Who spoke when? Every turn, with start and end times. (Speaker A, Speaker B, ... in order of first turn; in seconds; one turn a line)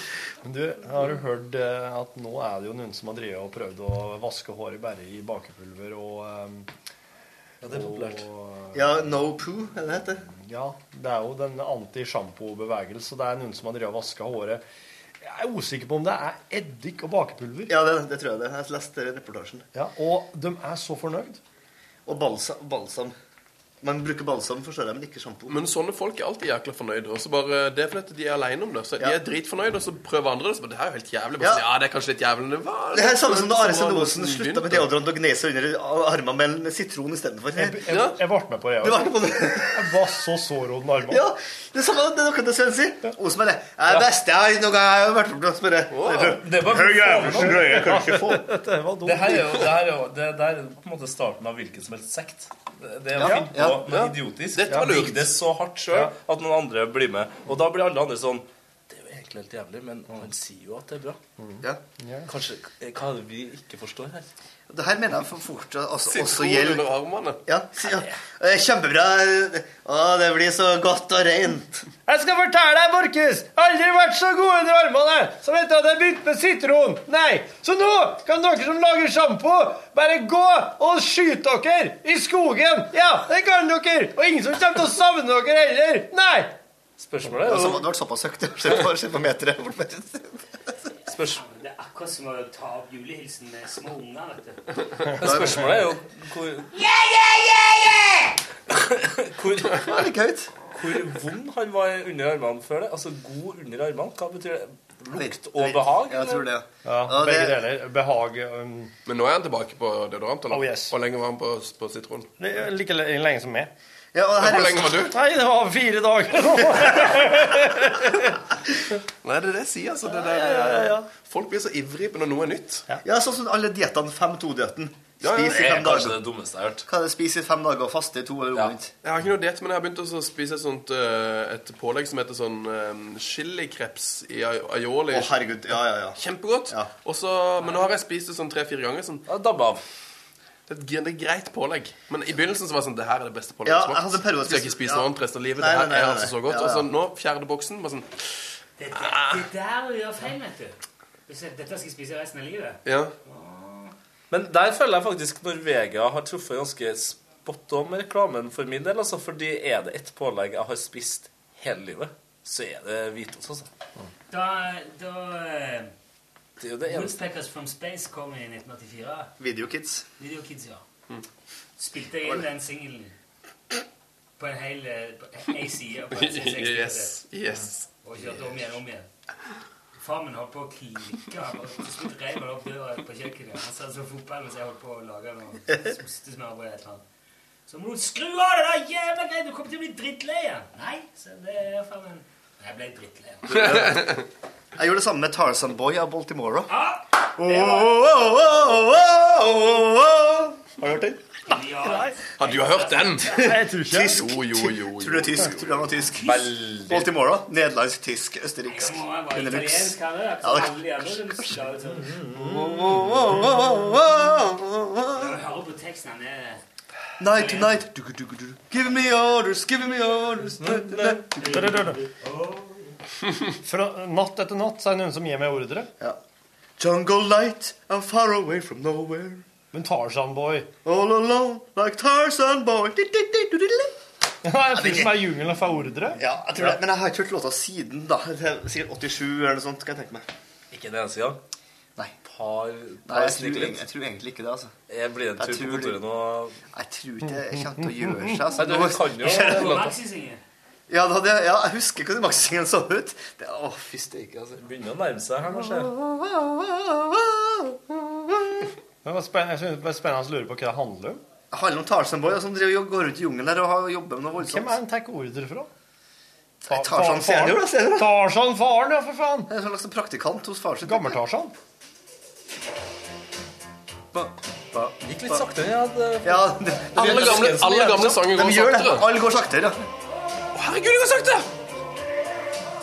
Speaker A: 0.4-6.7
Speaker B: 7.6-8.3
Speaker A: 7.7-8.8
Speaker C: 8.7-10.3
Speaker A: 10.3-14.6
Speaker A: 15.2-17.7
Speaker C: 17.7-19.7
Speaker A: 19.7-21.4
Speaker C: 22.1-23.1
Speaker C: 23.8-25.6
Speaker D: 25.5-34.9
Speaker C: 32.9-37.9
Speaker A: 37.5-41.2
Speaker D: 37.9-38.2
Speaker C: 38.8-40.0
Speaker C: 41.1-48.5
Speaker D: 45.9-46.4
Speaker B: 46.4-47.9
Speaker A: 47.4-49.7
Speaker B: 49.0-61.2
Speaker C: 53.1-53.9
Speaker D: 53.9-55.3
Speaker A: 61.4-62.3
Speaker B: 62.3-64.3
Speaker C: 64.7-66.9
Speaker D: 66.1-67.4
Speaker C: 67.5-71.8
Speaker A: 72.0-86.5
Speaker B: 87.0-87.8
Speaker C: 87.3-90.4
Speaker B: 91.1-91.4
Speaker E: 91.3-94.7
Speaker B: 95.1-96.7
Speaker C: 95.2-95.9
Speaker E: 96.8-98.2
Speaker B: 98.7-99.8
Speaker C: 99.7-100.7
Speaker B: 100.7-106.4
Speaker C: 105.1-107.6
Speaker A: 106.8-108.9
Speaker D: 109.0-112.3
Speaker A: 110.5-110.9
Speaker A: 112.4-113.7
Speaker C: 114.1-115.1
Speaker D: 114.4-115.1
Speaker A: 115.0-118.4
Speaker D: 119.2-122.8
Speaker A: 120.1-121.1
Speaker C: 123.0-126.2
Speaker D: 125.2-125.6
Speaker B: 125.4-126.8
Speaker C: 126.8-128.9
Speaker D: 129.0-135.3
Speaker C: 135.1-136.9
Speaker D: 136.2-139.3
Speaker B: 139.3-139.8
Speaker D: 140.7-148.4
Speaker C: 143.6-145.1
Speaker C: 145.6-146.9
Speaker E: 148.8-153.9
Speaker D: 148.9-149.4
Speaker D: 152.8-153.1
Speaker B: 154.3-163.7
Speaker E: 164.3-165.9
Speaker B: 166.6-167.2
Speaker E: 166.8-169.3
Speaker C: 169.4-170.1
Speaker E: 170.2-170.8
Speaker E: 171.8-173.1
Speaker E: 174.4-177.2
Speaker D: 176.1-177.9
Speaker E: 178.0-179.1
Speaker C: 178.2-178.5
Speaker E: 180.0-187.0
Speaker E: 187.7-194.0
Speaker C: 193.5-194.2
Speaker D: 193.8-194.2
Speaker C: 194.8-196.7
Speaker E: 196.7-198.1
Speaker C: 197.3-201.4
Speaker E: 201.5-203.6
Speaker D: 202.4-203.4
Speaker A: 203.3-204.2
Speaker C: 203.3-211.6
Speaker D: 204.0-205.9
Speaker E: 206.2-206.5
Speaker B: 206.2-207.1
Speaker E: 208.7-212.1
Speaker B: 211.8-213.7
Speaker C: 212.3-215.4
Speaker E: 215.1-216.6
Speaker C: 217.2-221.9
Speaker E: 217.3-217.8
Speaker B: 220.6-221.2
Speaker E: 221.4-222.9
Speaker A: 221.5-222.0
Speaker A: 223.6-225.9
Speaker C: 226.8-229.4
Speaker A: 229.7-230.7
Speaker C: 230.8-233.9
Speaker A: 234.4-236.8
Speaker C: 234.7-235.2
Speaker C: 236.1-240.2
Speaker B: 240.7-241.4
Speaker B: 242.2-243.9
Speaker C: 243.0-244.7
Speaker B: 244.9-246.6
Speaker C: 245.3-246.0
Speaker C: 246.7-249.9
Speaker B: 248.5-249.8
Speaker E: 249.2-250.4
Speaker C: 250.9-254.6
Speaker B: 254.6-255.9
Speaker C: 255.4-258.7
Speaker A: 259.0-261.2
Speaker C: 261.5-264.8
Speaker A: 264.4-265.7
Speaker C: 266.6-268.2
Speaker A: 266.7-269.5
Speaker C: 269.5-271.2
Speaker A: 270.8-271.5
Speaker C: 274.1-275.5
Speaker B: 275.0-278.1
Speaker C: 276.2-277.6
Speaker D: 277.0-279.1
Speaker C: 278.2-279.8
Speaker D: 280.5-281.5